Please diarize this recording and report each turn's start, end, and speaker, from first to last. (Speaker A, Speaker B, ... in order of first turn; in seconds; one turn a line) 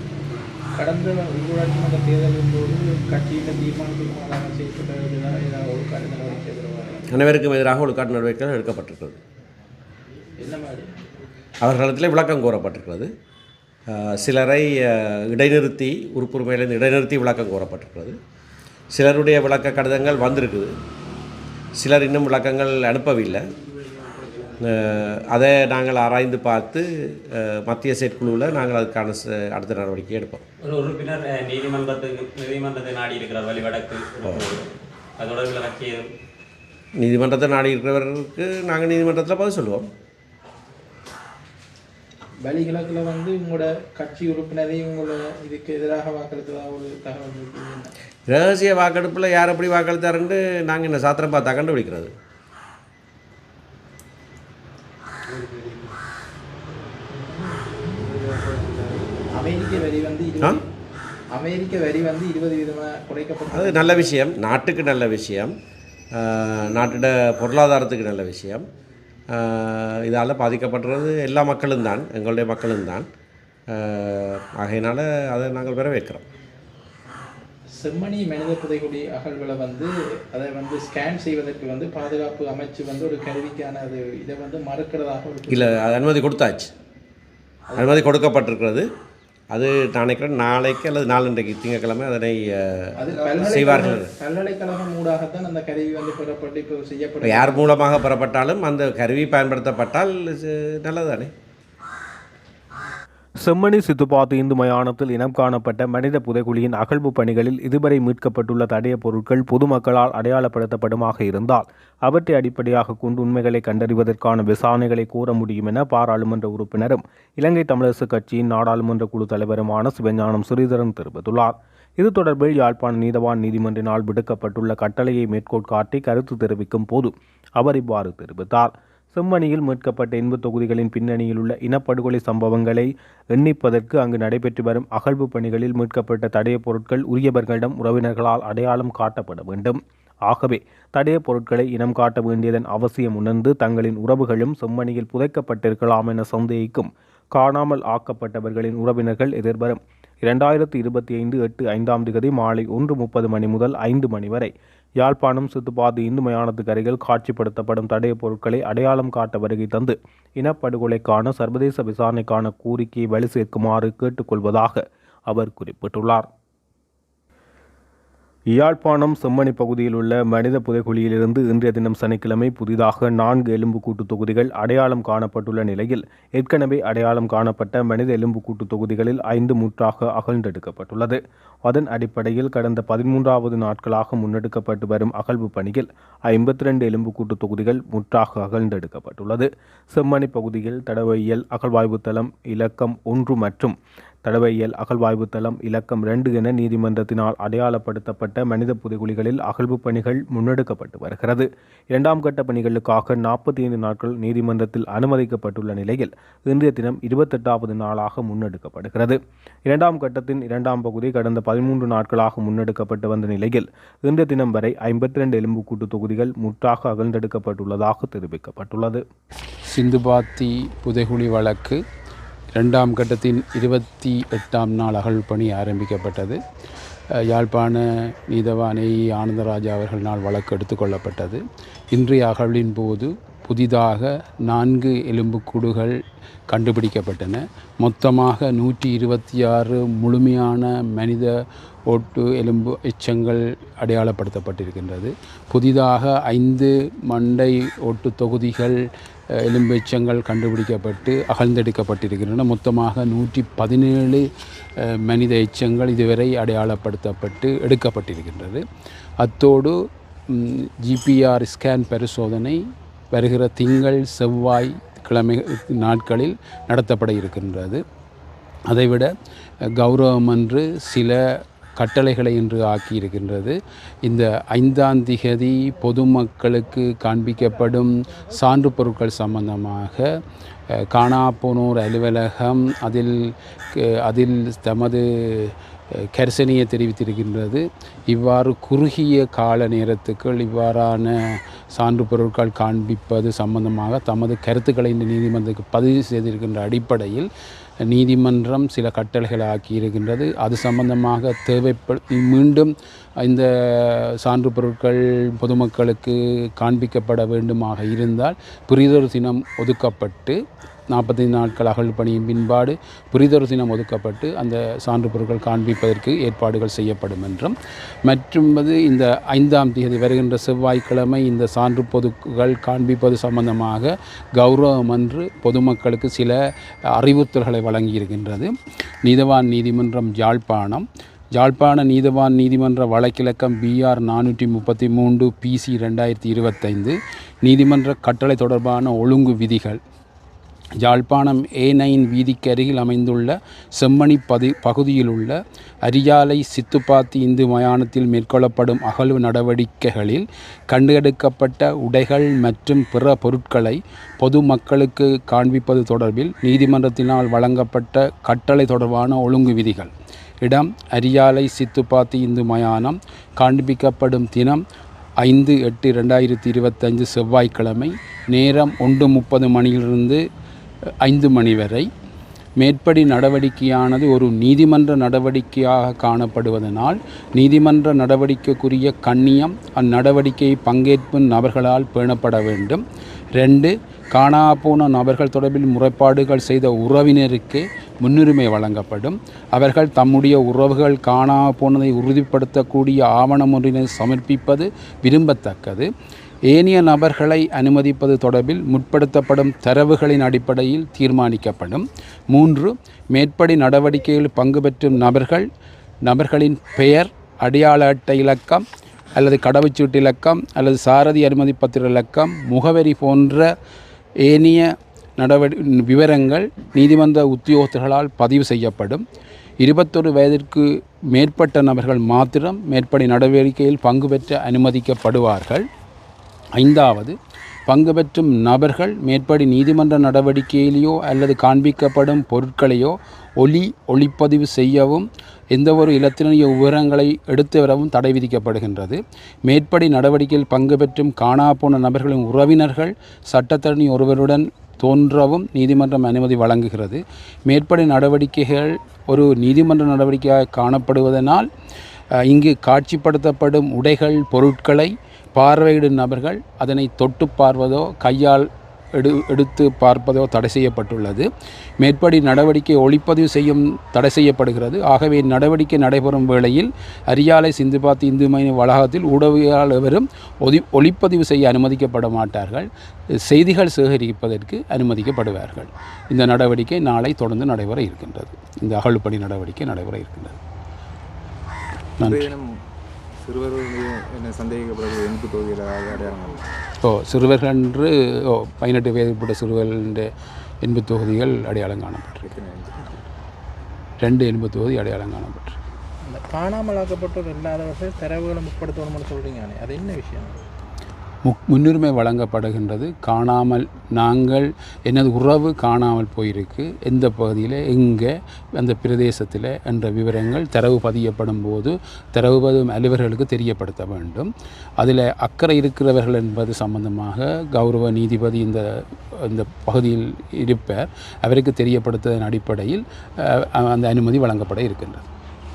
Speaker A: 0.8-7.1
Speaker B: 7.1-9.2
Speaker A: 10.4-11.1
Speaker B: 11.6-13.1
Speaker B: 13.9-18.2
Speaker B: 18.9-20.7
Speaker B: 21.8-23.4
Speaker B: 24.6-30.4
Speaker C: 30.6-36.1
Speaker B: 37.0-39.9
Speaker A: 42.4-47.9
Speaker B: 48.3-52.1
Speaker A: 59.3-60.6
Speaker A: 61.4-64.0
Speaker B: 63.5-65.5
Speaker B: 66.1-68.7
Speaker B: 69.3-73.1
Speaker B: 73.7-76.2
Speaker A: 77.8-85.7
Speaker B: 85.5-86.7
Speaker A: 87.7-88.0
Speaker B: 87.8-88.9
Speaker B: 89.5-94.1
Speaker A: 93.0-97.6
Speaker B: 97.2-101.3
Speaker D: 103.4-166.3
Speaker D: 168.5-219.0
Speaker E: 219.7-221.8
Speaker E: 222.5-226.4
Speaker E: 227.3-231.4
Speaker E: 231.9-236.0
Speaker E: 236.5-241.3
Speaker E: 241.9-248.8
Speaker E: 249.4-254.2
Speaker E: 254.8-258.6
Speaker E: 259.2-259.8
Speaker E: 260.3-262.6
Speaker E: 263.1-267.8
Speaker E: 268.7-269.1
Speaker E: 269.8-280.1
Speaker E: 280.9-285.5
Speaker E: 286.1-297.3
Speaker E: 297.9-302.7
Speaker E: 303.2-310.4
Speaker E: 310.9-317.5
Speaker E: 318.1-326.4
Speaker E: 327.0-328.5
Speaker E: 329.0-339.8
Speaker E: 340.8-359.9
Speaker E: 360.4-364.6
Speaker E: 365.2-370.2
Speaker E: 371.0-371.9
Speaker E: 372.6-382.8
Speaker E: 383.4-395.9
Speaker E: 396.5-405.5
Speaker E: 406.1-408.6
Speaker E: 409.2-413.5
Speaker E: 414.2-419.0
Speaker E: 419.6-425.6
Speaker E: 426.6-427.1
Speaker E: 427.7-451.5
Speaker E: 452.3-461.3
Speaker E: 461.8-472.7
Speaker E: 473.3-480.4
Speaker F: 482.0-482.5
Speaker E: 482.0-482.3
Speaker F: 483.2-486.4
Speaker E: 486.8-490.1
Speaker E: 490.6-492.2
Speaker F: 492.2-493.0
Speaker E: 494.0-495.6
Speaker A: 496.1-500.4
Speaker E: 501.2-514.3
Speaker E: 514.8-518.6
Speaker E: 519.2-525.0